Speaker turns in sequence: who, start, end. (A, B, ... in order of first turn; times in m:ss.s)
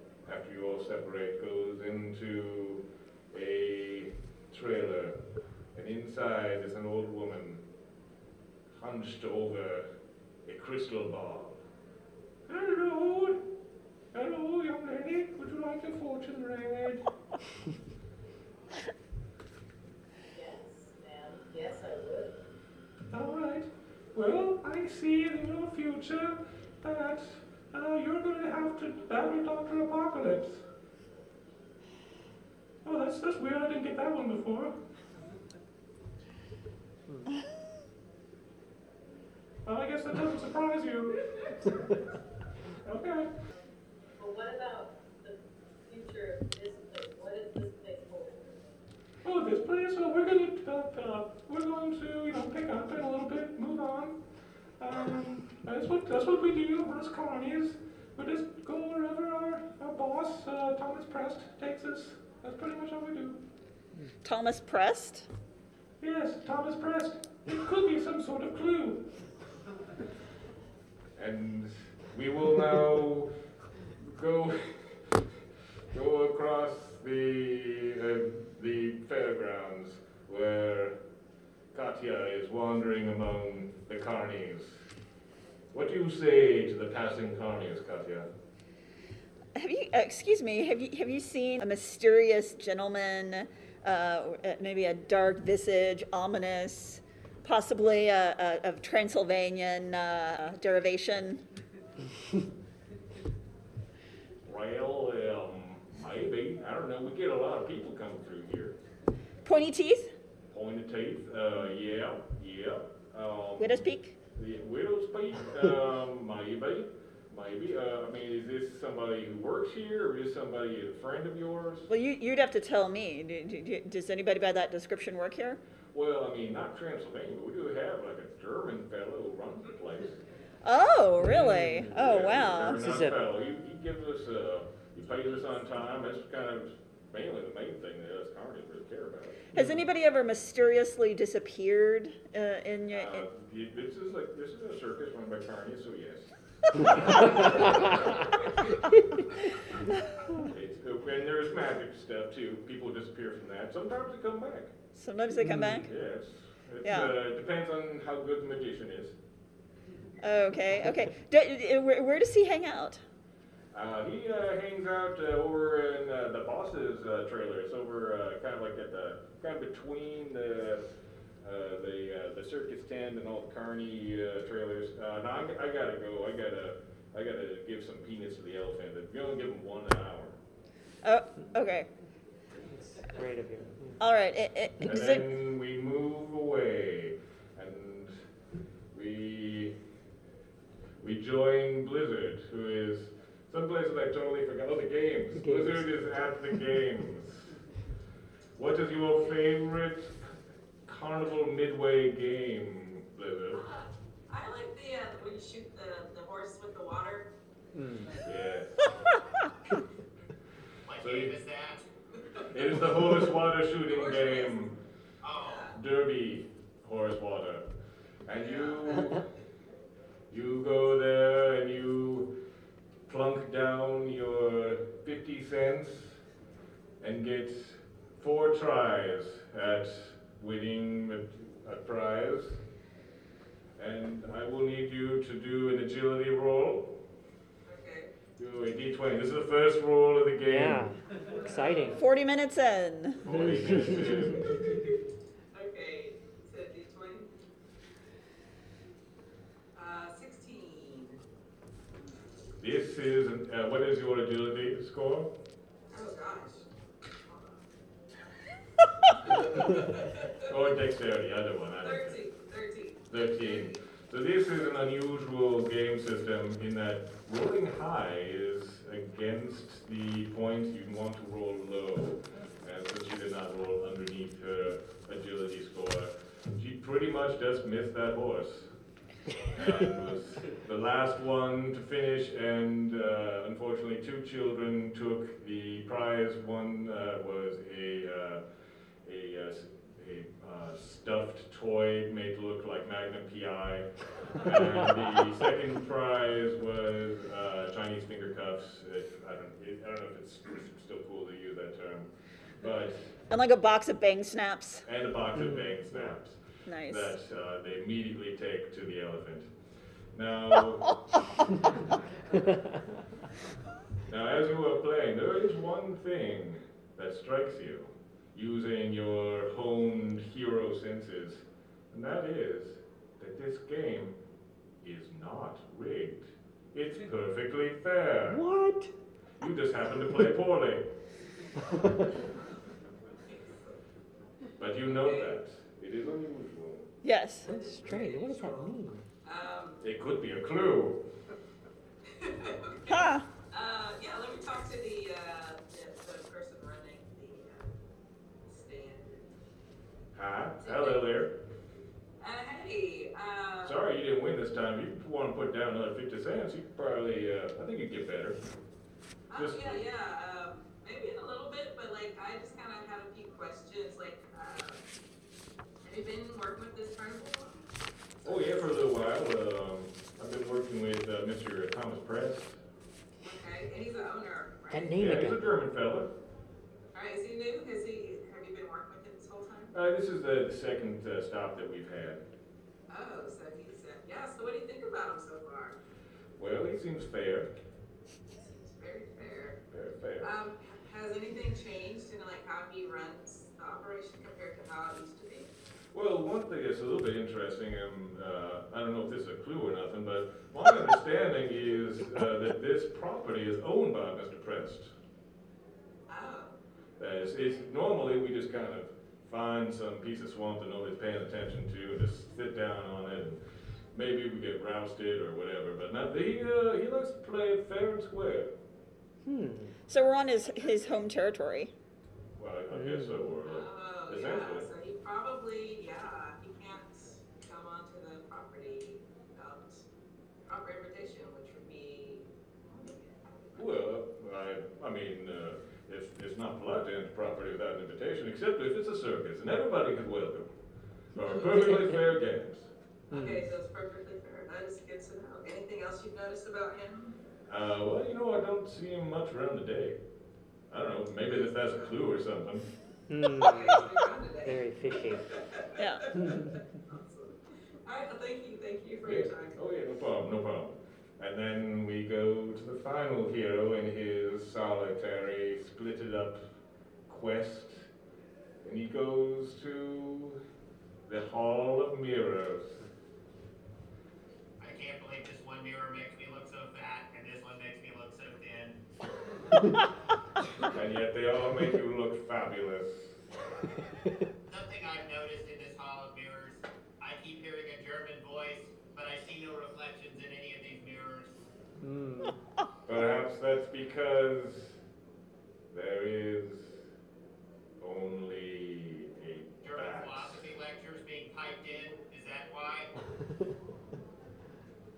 0:00.2-0:05.2 A
0:05.7-0:07.6 A
0:08.7-0:09.9 A
0:10.4-0:11.6 A
0:12.5-0:13.4 A
0:14.1-0:17.0 A
0:20.3-0:22.3 B
0:23.1-0:30.6 A
0:32.8-0:34.7 A
0:39.6-0:41.2 A
0:42.8-0:43.3 A
0:44.2-0:48.5 B
0:49.2-0:54.2 A
0:54.8-1:03.4 A
1:04.2-1:05.3 C
1:06.0-1:09.0 A
1:11.2-1:13.3 A
1:13.9-1:15.4 A
1:15.9-1:21.0 A
1:21.7-1:24.9 A
1:25.7-1:28.3 A
1:29.6-1:41.4 C
1:44.4-1:48.8 A
1:49.4-1:50.1 C
1:50.5-2:01.9 A
1:53.6-1:54.2 C
2:01.9-2:05.6 C
2:05.9-2:10.2 A
2:10.6-2:12.8 C
2:11.2-2:12.0 D
2:11.9-2:19.4 A
2:12.6-2:13.2 D
2:19.5-2:23.2 C
2:22.9-2:28.5 A
2:30.5-2:34.7 A
2:35.0-2:35.9 C
2:35.4-2:35.7 D
2:35.4-2:39.2 A
2:36.8-2:37.1 C
2:40.2-2:43.0 C
2:43.7-2:50.9 A
2:51.4-3:00.4 A
3:01.0-3:01.9 C
3:02.7-3:04.0 D
3:04.0-3:05.2 C
3:04.8-3:08.2 A
3:08.9-3:09.7 A
3:11.0-3:17.5 A
3:15.4-3:15.9 D
3:18.6-3:20.3 A
3:20.8-3:23.6 A
3:23.5-3:27.3 E
3:27.7-3:28.1 D
3:28.2-3:29.0 A
3:30.8-3:31.8 F
3:30.9-3:31.3 A
3:32.5-3:34.8 A
3:33.9-3:34.5 E
3:35.2-3:35.7 F
3:35.7-3:37.7 A
3:38.2-3:39.2 A
3:38.5-3:38.9 E
3:40.3-3:42.4 A
3:43.1-3:46.2 A
3:47.0-3:52.6 A
3:53.8-3:57.0 A
3:57.6-3:58.1 E
3:58.4-4:01.0 A
4:00.5-4:02.0 D
4:01.9-4:03.2 C
4:03.2-4:04.6 A
4:03.7-4:04.1 D
4:04.4-4:05.0 E
4:05.5-4:07.3 E
4:09.7-4:11.2 E
4:12.6-4:15.3 A
4:15.9-4:16.6 E
4:17.3-4:17.6 E
4:19.2-4:20.4 E
4:20.4-4:22.2 A
4:21.8-4:23.8 E
4:23.1-4:38.7 A
4:39.5-4:48.4 A
4:49.0-5:03.2 A
5:03.3-5:04.8 C
5:04.8-5:09.5 A
5:05.3-5:06.2 D
5:06.7-5:07.1 C
5:10.1-5:11.0 A
5:12.3-5:12.9 D
5:14.1-5:24.2 A
5:24.8-5:28.4 A
5:28.3-5:28.9 D
5:29.4-5:30.9 A
5:31.6-5:32.1 D
5:33.3-5:33.7 E
5:34.6-5:36.9 A
5:34.9-5:35.4 E
5:37.0-5:37.5 C
5:37.4-5:39.0 D
5:37.4-5:39.8 E
5:39.8-5:41.0 A
5:42.1-5:47.7 E
5:42.9-5:43.2 C
5:48.4-5:49.3 E
5:50.1-5:51.3 A
5:50.6-5:51.1 E
5:52.2-5:53.8 E
5:53.6-5:58.4 A
5:59.3-6:04.8 E
5:59.3-5:59.8 A
6:05.8-6:07.6 E
6:08.2-6:08.6 E
6:08.2-6:12.6 A
6:13.2-6:15.1 E
6:14.7-6:15.4 D
6:14.9-6:16.1 A
6:16.9-6:19.7 E
6:19.7-6:22.2 A
6:22.9-6:25.8 E
6:26.4-6:27.5 A
6:28.4-6:29.6 E
6:29.7-6:30.3 A
6:30.2-6:35.5 E
6:35.9-6:44.9 A
6:46.1-6:46.6 E
6:47.0-6:53.4 A
6:53.9-6:58.5 A
6:59.2-6:59.7 D
6:59.9-7:01.7 C
7:02.4-7:04.7 A
7:02.7-7:03.2 D
7:03.4-7:09.8 E
7:10.4-7:13.7 E
7:13.5-7:20.5 A
7:21.1-7:22.7 A
7:23.1-7:27.2 E
7:23.1-7:23.4 D
7:27.5-7:30.0 A
7:30.7-7:32.7 A
7:31.3-7:31.9 E
7:33.1-7:33.9 D
7:33.3-7:39.6 E
7:34.4-7:35.2 D
7:35.8-7:36.0 C
7:36.2-7:36.5 D
7:39.0-7:46.4 A
7:47.1-7:47.9 A
7:48.6-7:50.4 A
7:51.1-7:52.8 A
7:54.6-7:58.8 F
8:00.7-8:03.2 A
8:04.5-8:11.4 F
8:11.8-8:12.4 D
8:12.8-8:14.8 A
8:15.7-8:16.8 A
8:17.8-8:20.5 A
8:19.6-8:22.9 F